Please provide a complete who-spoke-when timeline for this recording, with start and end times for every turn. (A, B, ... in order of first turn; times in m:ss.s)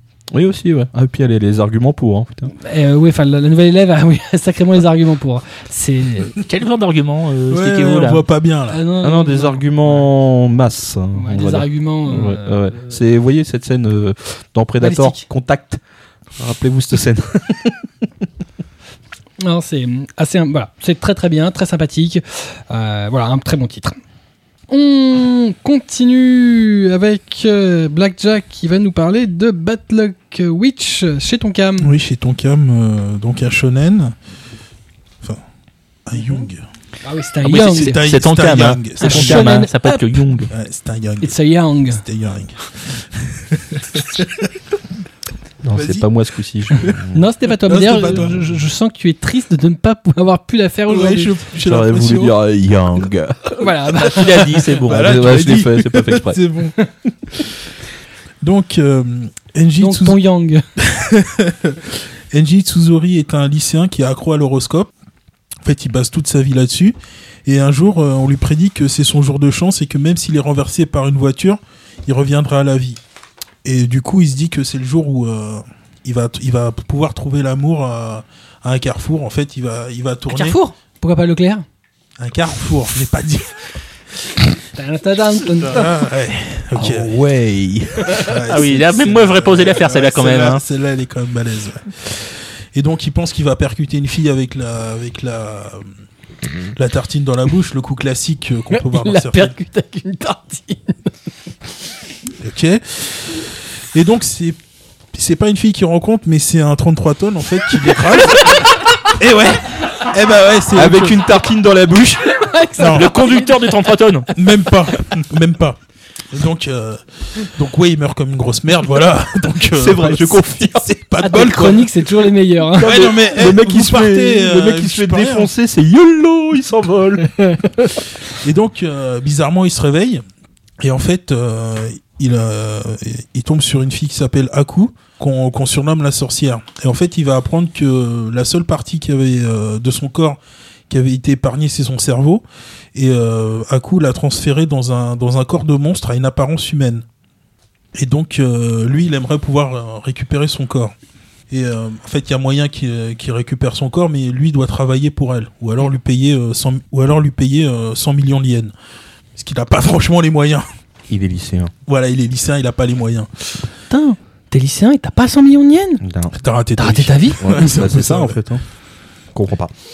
0:00.3-0:02.5 A
0:02.6-0:06.4 B
0:06.4-0:08.2 C
0:07.5-0:08.8 D
0:08.7-0:10.0 B
0:09.0-0:15.8 A
0:11.1-0:12.9 B
0:14.8-0:15.3 B
0:16.4-0:17.8 A
0:19.4-0:24.0 B
0:24.7-0:31.9 B
0:31.8-0:34.1 D
0:36.0-0:36.6 D
0:37.0-0:38.0 B
0:37.4-0:40.5 C
0:37.6-0:39.5 D
0:39.0-0:40.2 B
0:40.5-0:41.4 D
0:41.2-0:42.0 B
0:41.9-0:44.5 D
0:45.6-0:47.2 A
0:45.7-0:46.0 D
0:47.1-0:51.3 B
0:47.7-0:48.4 D
0:50.9-0:52.3 D
0:51.6-0:53.5 A
0:53.6-0:54.3 B
0:53.6-0:56.8 D
0:54.0-0:55.4 C
0:54.9-0:56.4 A
0:58.4-1:00.2 D
0:59.8-1:00.6 B
1:00.9-1:04.9 D
1:05.6-1:13.0 D
1:13.6-1:20.6 D
1:20.3-1:21.6 B
1:22.2-1:23.7 D
1:24.7-1:25.9 B
1:25.7-1:35.8 D
1:26.8-1:27.1 A
1:28.1-1:28.4 B
1:28.5-1:30.6 C
1:36.6-1:39.5 D
1:38.7-1:41.1 B
1:42.4-1:44.6 D
1:45.1-1:51.2 D
1:50.7-1:52.4 A
1:52.3-1:53.6 B
1:52.8-1:53.1 D
1:52.9-1:54.3 C
1:54.4-2:01.9 D
1:59.7-2:01.5 A
2:01.2-2:03.1 B
2:02.8-2:05.5 D
2:02.8-2:07.3 A
2:07.5-2:07.9 B
2:08.3-2:10.2 D
2:10.8-2:20.4 D
2:20.9-2:22.4 D
2:22.9-2:27.0 D
2:27.9-2:30.9 D
2:31.5-2:38.7 D
2:39.4-2:40.7 D
2:41.1-2:41.7 A
2:41.9-2:43.7 D
2:43.9-2:46.0 B
2:46.0-2:46.3 A
2:46.3-2:48.4 D
2:46.8-2:47.8 B
2:47.4-2:48.6 A
2:49.3-2:49.7 A